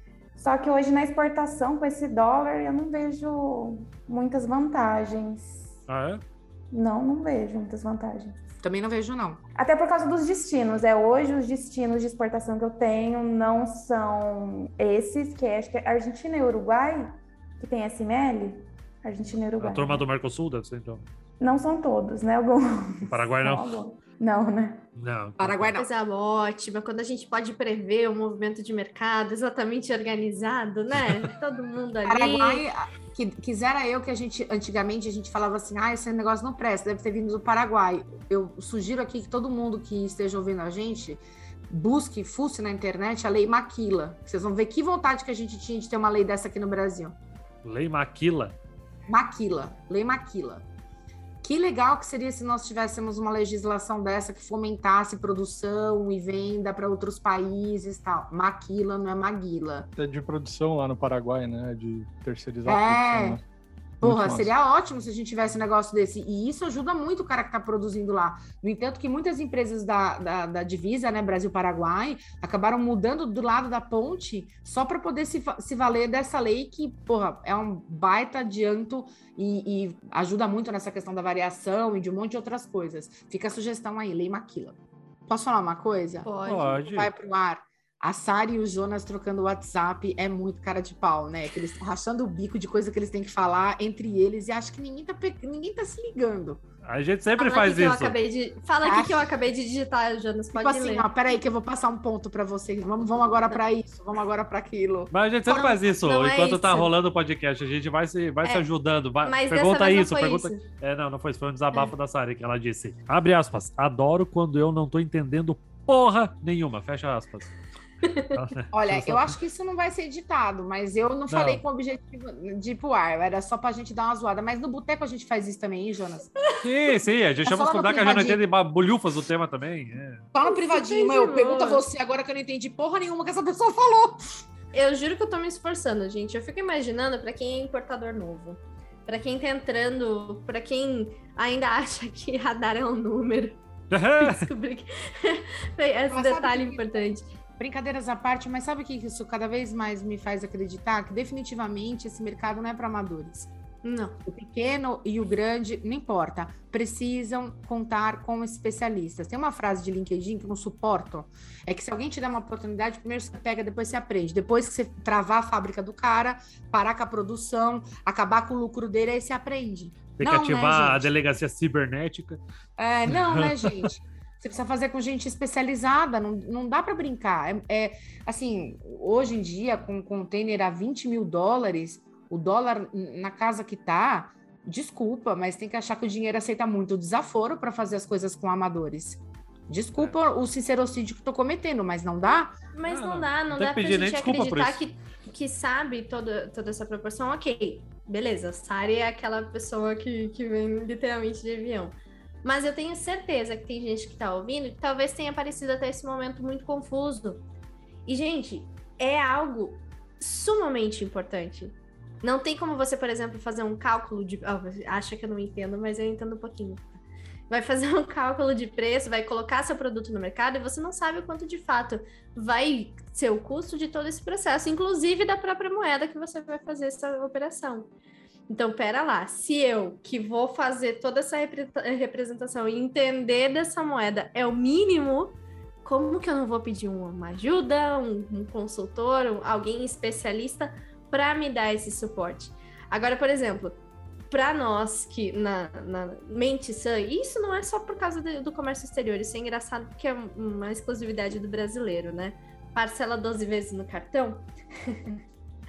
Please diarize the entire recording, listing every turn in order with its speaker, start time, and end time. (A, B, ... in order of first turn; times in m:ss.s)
0:00.4-0:05.7 A
0:05.9-0:06.2 B
0:06.7-0:08.4 A
0:08.6-0:09.4 C
0:09.6-0:17.1 A
0:17.6-0:20.0 A
0:19.6-0:21.0 B
0:21.4-0:24.9 A
0:23.1-0:23.7 B
0:25.0-0:25.7 B
0:25.4-0:25.9 C
0:25.7-0:32.7 D
0:32.0-0:47.2 C
0:47.6-0:48.6 B
0:49.1-0:50.6 C
0:51.4-0:59.9 C
1:00.0-1:03.4 E
1:02.7-1:03.4 C
1:04.0-1:04.5 E
1:04.0-1:36.6 C
1:26.2-1:26.8 D
1:26.4-1:27.1 B
1:36.8-1:38.2 B
1:37.4-1:41.1 D
1:38.8-1:39.2 C
1:40.6-1:45.7 C
1:45.1-1:57.5 B
1:45.8-1:46.9 D
1:49.2-1:50.6 D
1:58.0-1:58.4 D
1:58.3-1:59.4 B
1:58.7-2:06.3 C
2:01.3-2:01.6 B
2:06.4-2:06.6 D
2:06.6-2:10.3 B
2:07.4-2:08.4 C
2:10.3-2:14.4 C
2:10.4-2:11.8 D
2:14.7-2:23.6 D
2:23.9-2:24.5 B
2:24.2-2:27.3 D
2:26.1-2:33.5 C
2:33.8-2:34.2 D
2:34.3-2:51.1 C
2:50.2-2:52.4 B
2:52.8-3:12.6 C
2:53.1-2:53.9 B
3:12.7-3:27.4 D
3:12.8-3:14.8 B
3:28.0-3:37.0 D
3:37.5-3:47.9 D
3:48.5-4:03.8 D
4:04.3-4:15.1 D